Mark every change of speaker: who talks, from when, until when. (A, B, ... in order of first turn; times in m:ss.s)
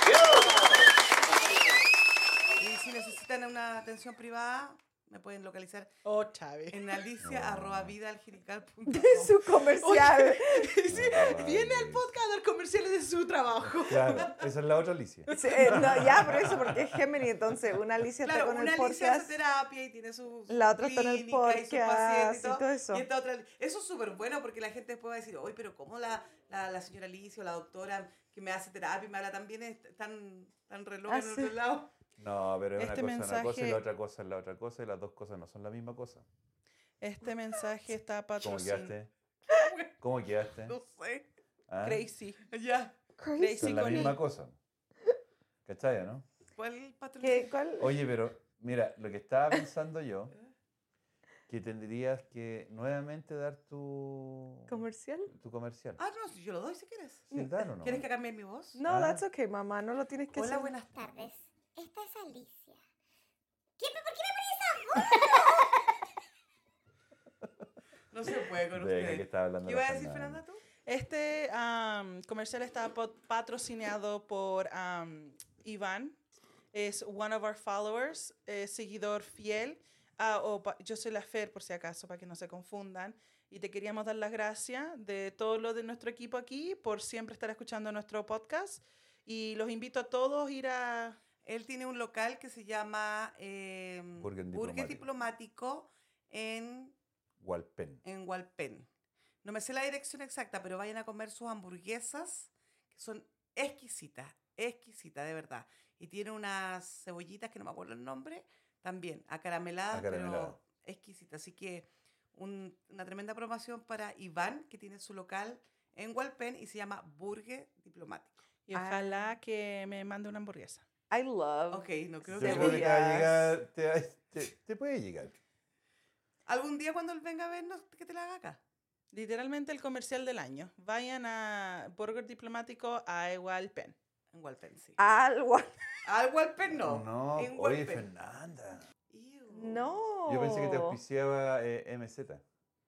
0:00.2-0:00.5 A
0:02.6-0:05.9 A
0:06.1-0:06.8 B
0:06.7-0:09.4 A
0:07.2-0:08.0 C
0:08.9-0:10.7 D
0:09.8-0:14.5 B
0:10.9-0:12.2 C
0:13.7-0:17.0 C
0:15.3-0:19.4 D
0:15.3-0:15.8 B
0:18.2-0:31.9 A
0:20.5-0:23.1 D
0:31.1-0:31.6 D
0:32.2-0:36.3 C
0:32.8-0:33.8 B
0:37.0-0:38.9 B
0:38.4-0:39.1 C
0:39.5-0:39.9 A
0:40.0-0:40.8 C
0:40.6-0:41.2 A
0:41.7-0:42.1 C
0:41.8-0:42.4 B
0:42.5-0:43.0 A
0:43.2-0:44.2 D
0:43.4-0:44.2 B
0:43.6-0:44.6 C
0:45.7-0:46.3 C
0:46.6-0:47.5 A
0:47.2-0:48.0 D
0:47.8-0:50.3 C
0:51.5-0:54.8 C
0:54.7-0:55.3 D
0:55.3-0:56.0 C
0:56.0-0:57.3 A
0:57.3-0:58.1 C
0:57.8-0:58.8 A
0:58.8-1:00.7 D
0:58.9-0:59.2 C
1:00.3-1:01.2 A
1:01.0-1:02.8 E
1:03.8-1:06.0 E
1:08.1-1:10.6 A
1:08.7-1:10.4 C
1:10.9-1:16.2 B
1:16.7-1:31.2 B
1:31.4-1:37.0 A
1:34.2-1:35.0 C
1:37.4-1:38.0 C
1:38.0-1:38.9 A
1:39.4-1:58.4 A
1:49.9-1:50.6 C
1:58.7-2:00.8 B
1:58.7-1:59.3 D
2:01.1-2:03.5 D
2:01.7-2:03.0 A
2:02.4-2:05.4 C
2:06.5-2:08.6 A
2:09.1-2:14.0 B
2:14.3-2:15.0 A
2:15.0-2:15.7 D
2:16.0-2:18.1 A
2:16.7-2:18.9 C
2:19.1-2:20.0 A
2:19.5-2:21.0 D
2:20.3-2:22.4 C